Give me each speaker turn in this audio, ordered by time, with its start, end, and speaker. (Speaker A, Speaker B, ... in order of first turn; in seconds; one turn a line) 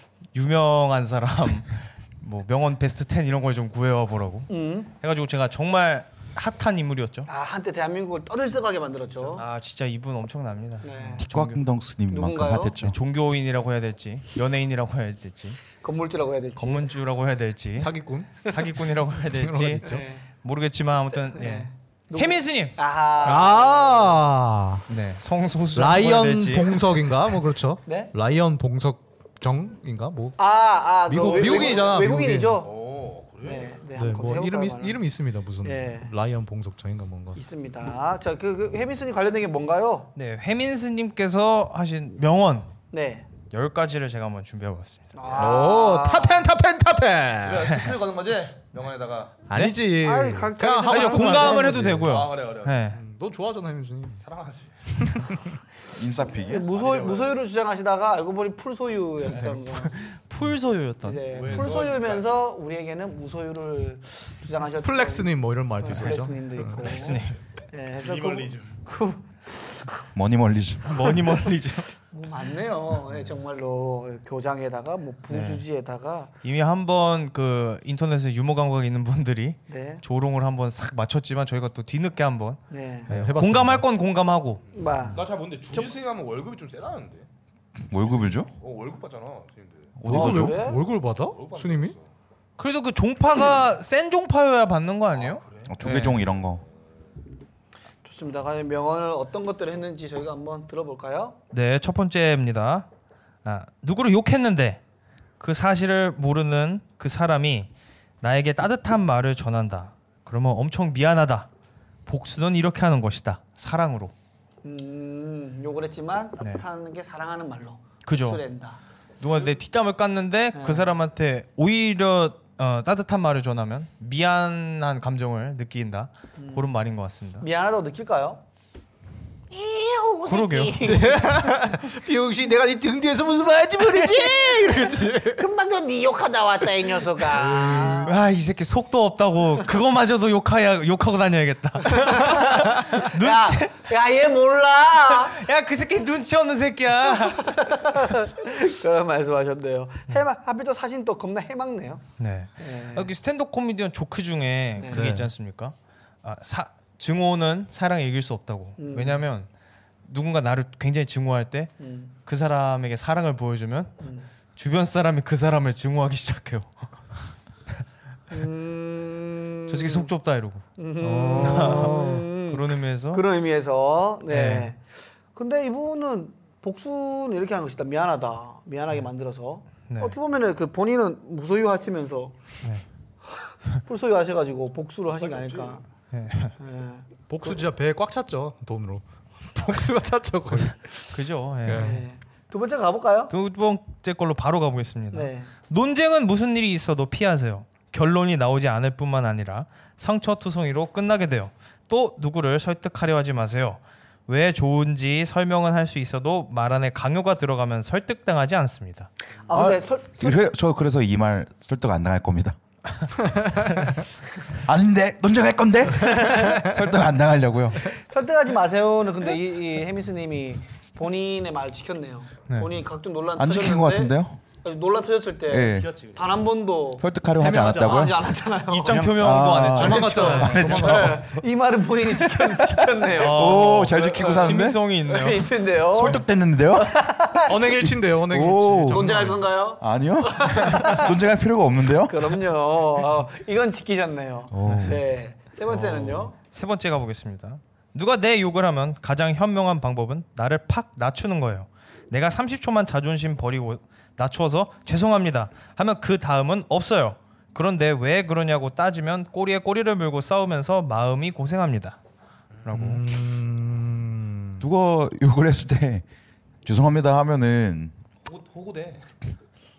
Speaker A: 0.3-7.3
Speaker B: 4.5-4.9
Speaker B: 7.3-9.4
Speaker A: 9.3-11.6
Speaker B: 10.8-11.2
Speaker C: 11.2-13.0
Speaker B: 12.1-12.8
Speaker A: 12.8-15.6
Speaker B: 15.8-16.9
Speaker A: 16.6-22.8
Speaker D: 17.8-18.5
Speaker D: 19.2-20.0
Speaker B: 19.8-20.2
Speaker B: 21.3-24.2
Speaker D: 23.2-24.8
Speaker A: 24.9-27.0
Speaker D: 25.7-30.4
Speaker B: 27.8-28.1
Speaker B: 30.4-32.7
Speaker D: 31.1-32.6
Speaker E: 31.4-31.8
Speaker E: 32.6-33.9
Speaker B: 33.4-35.0
Speaker D: 33.9-37.4
Speaker B: 35.6-36.1
Speaker B: 37.3-40.1
Speaker A: 40.1-42.7
Speaker B: 42.9-43.2
Speaker A: 43.5-45.1
Speaker B: 45.1-46.5
Speaker D: 45.4-47.8
Speaker E: 47.4-49.5
Speaker D: 49.5-52.1
Speaker A: 49.5-49.8
Speaker B: 50.0-51.9
Speaker A: 50.9-53.0
Speaker E: 52.0-52.8
Speaker D: 52.9-54.2
Speaker E: 54.2-55.2
Speaker D: 55.2-55.6
Speaker C: 55.9-56.7
Speaker B: 56.4-60.0
Speaker E: 56.7-57.4
Speaker A: 59.3-61.2
Speaker B: 61.0-70.0
Speaker E: 61.3-62.4
Speaker D: 64.8-66.8
Speaker A: 65.9-67.4
Speaker E: 68.0-68.7
Speaker C: 70.1-71.1
Speaker A: 70.8-71.9
Speaker B: 72.0-76.3
Speaker A: 75.3-75.6
Speaker A: 76.4-84.6
Speaker B: 79.7-80.0
Speaker B: 82.7-83.1
Speaker D: 83.1-83.8
Speaker B: 84.7-85.2
Speaker E: 85.1-87.3
Speaker C: 87.9-88.5
Speaker E: 88.5-90.0
Speaker C: 90.0-90.6
Speaker D: 90.0-92.0
Speaker B: 90.1-90.8
Speaker E: 91.3-92.0
Speaker A: 92.6-96.2
Speaker E: 95.3-95.7
Speaker C: 95.7-96.6
Speaker B: 98.0-101.3
Speaker A: 101.5-102.8
Speaker A: 103.4-104.8
Speaker A: 105.4-107.7
Speaker A: 108.2-111.5
Speaker A: 112.0-114.1
Speaker B: 114.6-118.8
Speaker A: 118.0-118.4
Speaker A: 119.2-127.4
Speaker B: 120.5-120.9
Speaker B: 126.4-126.7
Speaker B: 127.4-128.4
Speaker B: 129.5-131.5
Speaker A: 130.2-130.8
Speaker D: 130.8-135.4
Speaker A: 133.9-134.3
Speaker B: 134.3-138.1
Speaker D: 137.2-138.1
Speaker A: 138.0-143.7
Speaker B: 141.8-145.4
Speaker A: 145.1-147.7
Speaker B: 147.2-152.0
Speaker A: 152.2-159.5
Speaker B: 152.6-153.1
Speaker B: 154.8-155.1
Speaker D: 154.9-155.3
Speaker B: 158.8-159.2
Speaker A: 160.0-161.7
Speaker B: 161.8-162.1
Speaker A: 162.2-164.0
Speaker B: 164.0-164.3
Speaker A: 164.5-166.7
Speaker B: 168.3-170.1
Speaker A: 169.7-170.7
Speaker B: 170.8-174.8
Speaker D: 171.0-172.2
Speaker A: 171.4-173.2
Speaker A: 174.3-174.7
Speaker B: 175.3-182.3
Speaker A: 179.9-180.1
Speaker B: 183.8-185.8
Speaker E: 185.4-185.7
Speaker A: 186.1-186.5
Speaker B: 186.6-187.6
Speaker D: 187.3-191.0
Speaker A: 191.1-192.0
Speaker D: 191.7-192.0
Speaker B: 191.7-193.3
Speaker A: 193.3-209.1
Speaker B: 195.1-195.5
Speaker B: 209.5-210.4
Speaker C: 209.5-212.6
Speaker C: 214.6-217.8
Speaker B: 216.0-216.7
Speaker B: 217.8-229.0
Speaker C: 223.4-224.4
Speaker C: 225.5-225.9
Speaker E: 225.8-226.2
Speaker C: 227.0-228.2
Speaker D: 227.4-228.1
Speaker A: 228.7-231.1
Speaker C: 228.9-231.3
Speaker D: 229.7-231.2
Speaker B: 230.5-234.5
Speaker C: 232.1-234.8
Speaker A: 233.2-235.5
Speaker B: 235.1-236.2
Speaker C: 235.9-239.1
Speaker B: 236.8-237.8
Speaker D: 237.5-239.4
Speaker B: 238.9-241.1
Speaker C: 239.8-242.4
Speaker B: 242.1-246.3
Speaker E: 244.6-245.0
Speaker A: 244.7-244.9
Speaker A: 245.8-262.0
Speaker A: 262.6-263.0
Speaker D: 262.7-264.6
Speaker C: 264.6-266.0
Speaker C: 266.6-267.9
Speaker E: 268.2-269.1